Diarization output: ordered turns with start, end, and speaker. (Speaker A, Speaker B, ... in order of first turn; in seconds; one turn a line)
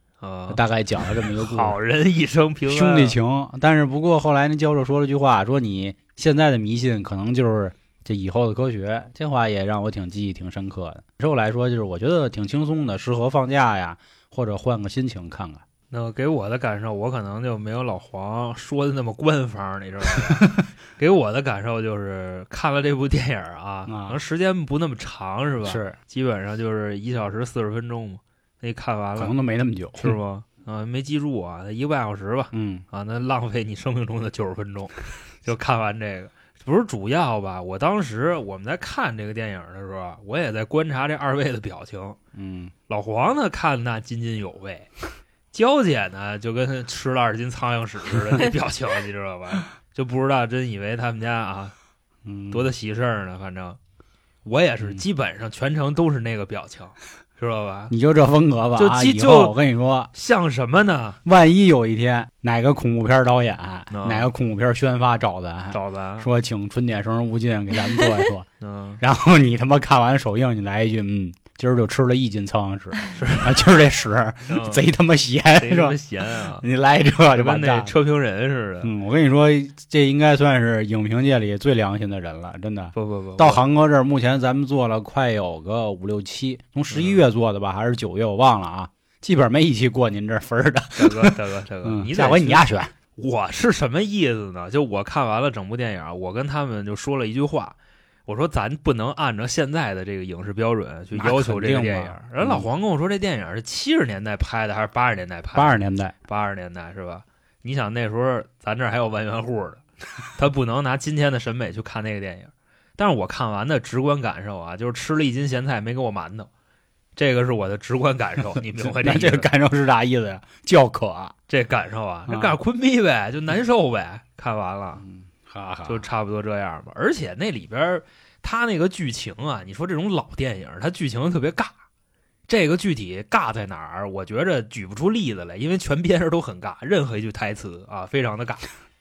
Speaker A: 0.2-3.2
Speaker B: 0.5-1.8
Speaker B: 2.7-15.6
Speaker A: 15.9-29.3
Speaker B: 20.2-20.4
Speaker B: 23.9-24.2
Speaker B: 25.6-26.0
Speaker B: 29.1-30.2
Speaker A: 30.0-42.2
Speaker B: 32.5-32.8
Speaker B: 42.3-42.7
Speaker A: 42.9-44.9
Speaker A: 45.5-51.7
Speaker B: 52.2-52.7
Speaker A: 52.5-53.8
Speaker A: 54.4-57.9
Speaker B: 57.9-60.1
Speaker A: 58.8-59.5
Speaker A: 60.1-61.2
Speaker B: 61.2-68.5
Speaker A: 63.9-64.3
Speaker A: 65.7-66.3
Speaker A: 68.6-69.0
Speaker B: 69.0-76.0
Speaker A: 73.1-73.7
Speaker A: 74.5-74.8
Speaker A: 75.6-76.6
Speaker B: 76.6-77.9
Speaker A: 77.3-78.9
Speaker B: 78.8-92.9
Speaker A: 82.9-83.6
Speaker A: 86.9-87.2
Speaker A: 91.0-92.6
Speaker A: 93.2-97.7
Speaker A: 98.2-105.8
Speaker B: 101.1-102.7
Speaker B: 105.5-106.1
Speaker A: 106.3-109.8
Speaker A: 110.3-116.5
Speaker A: 117.2-119.5
Speaker B: 118.8-121.3
Speaker A: 121.5-125.0
Speaker B: 122.3-122.6
Speaker B: 125.0-126.0
Speaker A: 125.8-131.7
Speaker A: 132.5-138.7